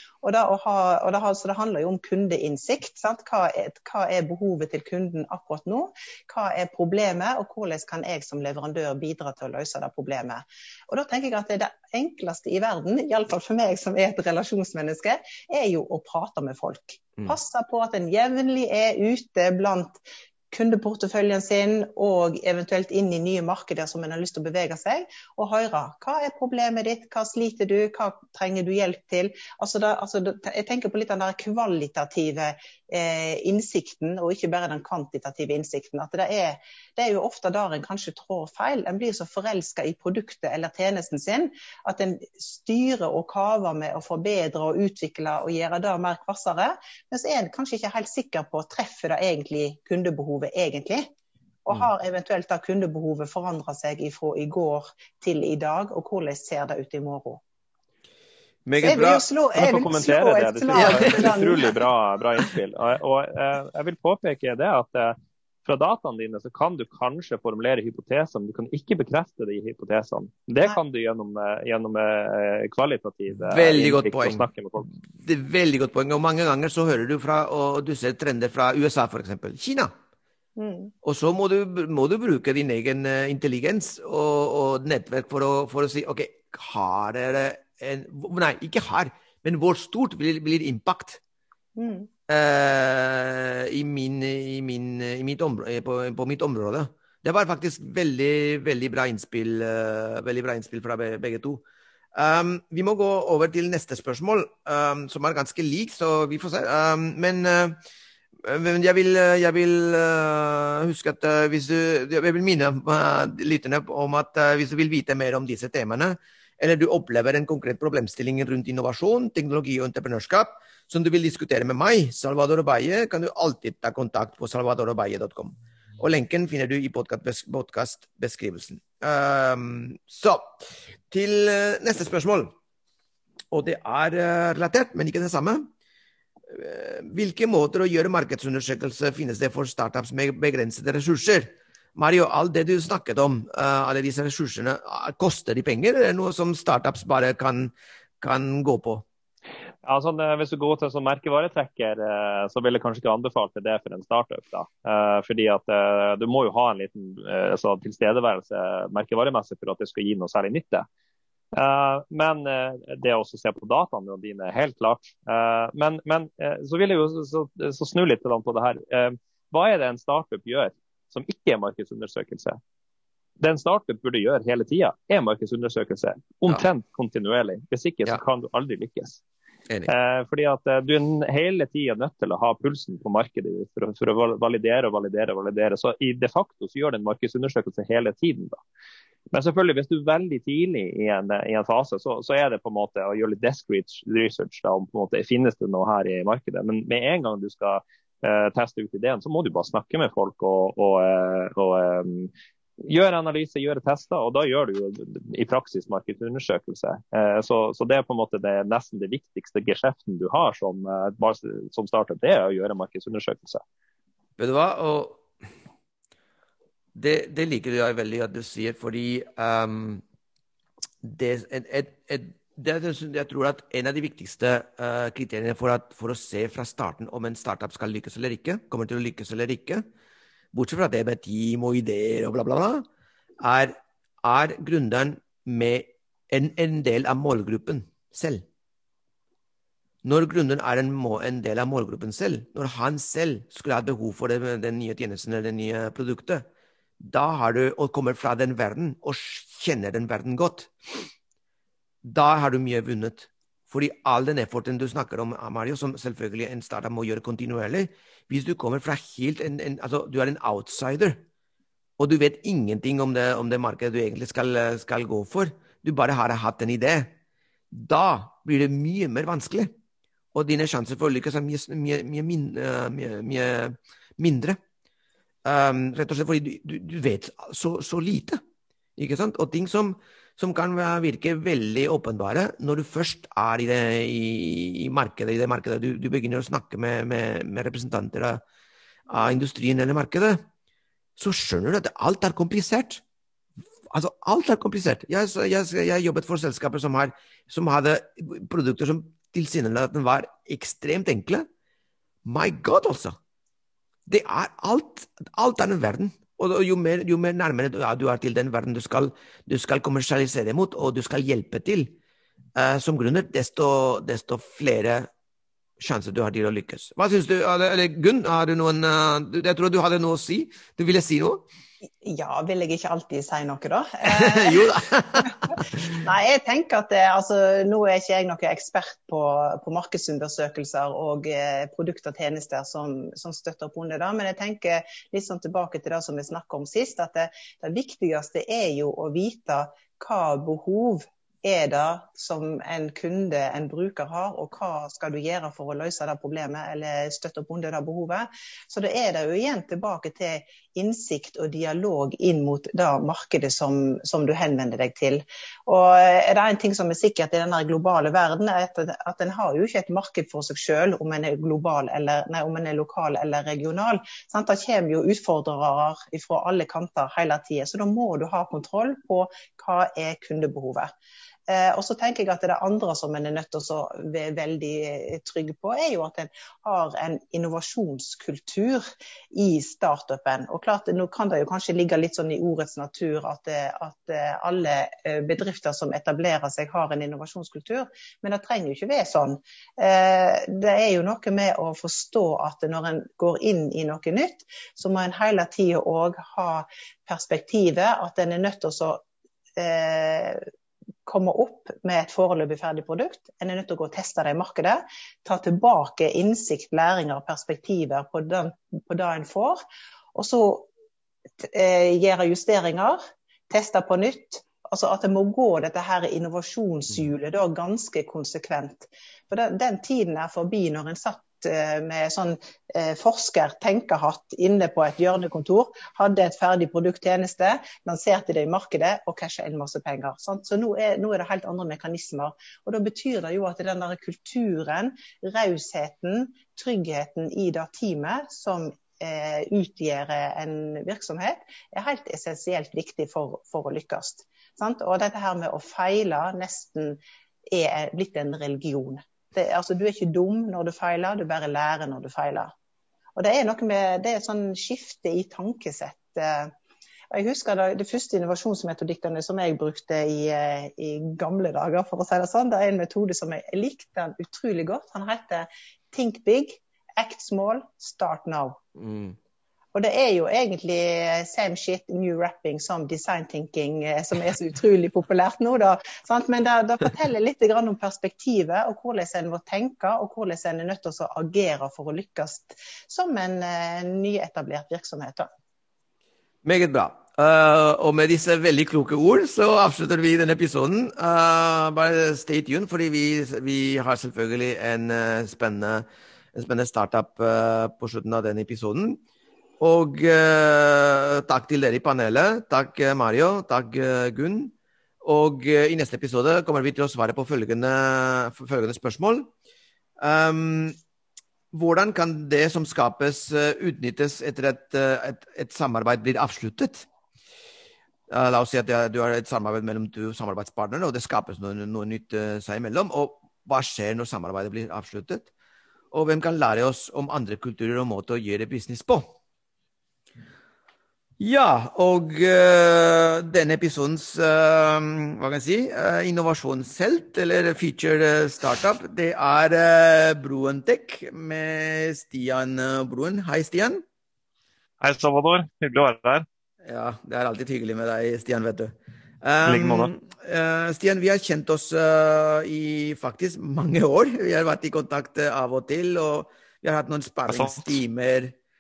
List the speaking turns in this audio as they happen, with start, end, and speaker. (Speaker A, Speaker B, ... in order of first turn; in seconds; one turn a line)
Speaker A: 0.2-20.0
Speaker A: 20.5-51.1
Speaker A: 51.7-57.4
Speaker B: 58.7-59.2
Speaker A: 58.8-61.7
Speaker C: 59.5-74.9
Speaker B: 60.7-61.5
Speaker B: 73.4-79.9
Speaker A: 80.6-80.9
Speaker B: 81.0-91.2
Speaker A: 91.8-92.1
Speaker B: 92.3-101.6
Speaker B: 102.2-107.8
Speaker B: 108.4-132.5
Speaker B: 133.5-135.7
Speaker B: 136.5-149.1
Speaker C: 149.8-160.8
Speaker C: 161.5-172.6
Speaker C: 173.4-179.2
Speaker C: 179.9-188.6
Speaker C: 189.3-202.3
Speaker C: 202.8-213.6
Speaker B: 214.4-215.2
Speaker B: 216.9-220.0
Speaker B: 221.0-229.8
Speaker B: 230.5-232.9
Speaker B: 233.4-238.4
Speaker B: 240.0-246.4
Speaker B: 247.0-250.7
Speaker B: 252.0-261.2
Speaker B: 262.0-267.1
Speaker B: 267.7-269.7
Speaker B: 270.3-274.6
Speaker B: 275.4-278.4
Speaker B: 279.0-288.4
Speaker B: 289.1-290.4
Speaker B: 291.2-293.0
Speaker B: 293.9-301.5
Speaker B: 302.2-303.2
Speaker B: 304.1-312.0
Speaker B: 312.6-315.1
Speaker B: 315.8-321.4
Speaker A: 322.0-370.9
Speaker B: 324.0-326.0
Speaker A: 371.5-399.0
Speaker A: 399.6-400.4
Speaker A: 401.1-409.6
Speaker A: 410.1-410.7
Speaker A: 411.4-447.0
Speaker A: 447.5-452.5
Speaker A: 453.2-456.5
Speaker A: 457.1-468.6
Speaker B: 468.8-469.2
Speaker A: 469.7-485.3
Speaker B: 486.4-499.0
Speaker B: 499.6-509.3
Speaker B: 510.0-510.8
Speaker B: 511.5-516.9
Speaker B: 518.1-525.3
Speaker B: 525.9-529.1
Speaker B: 531.2-543.8
Speaker D: 544.8-546.3
Speaker B: 546.6-558.4
Speaker D: 549.5-549.9
Speaker D: 557.3-557.8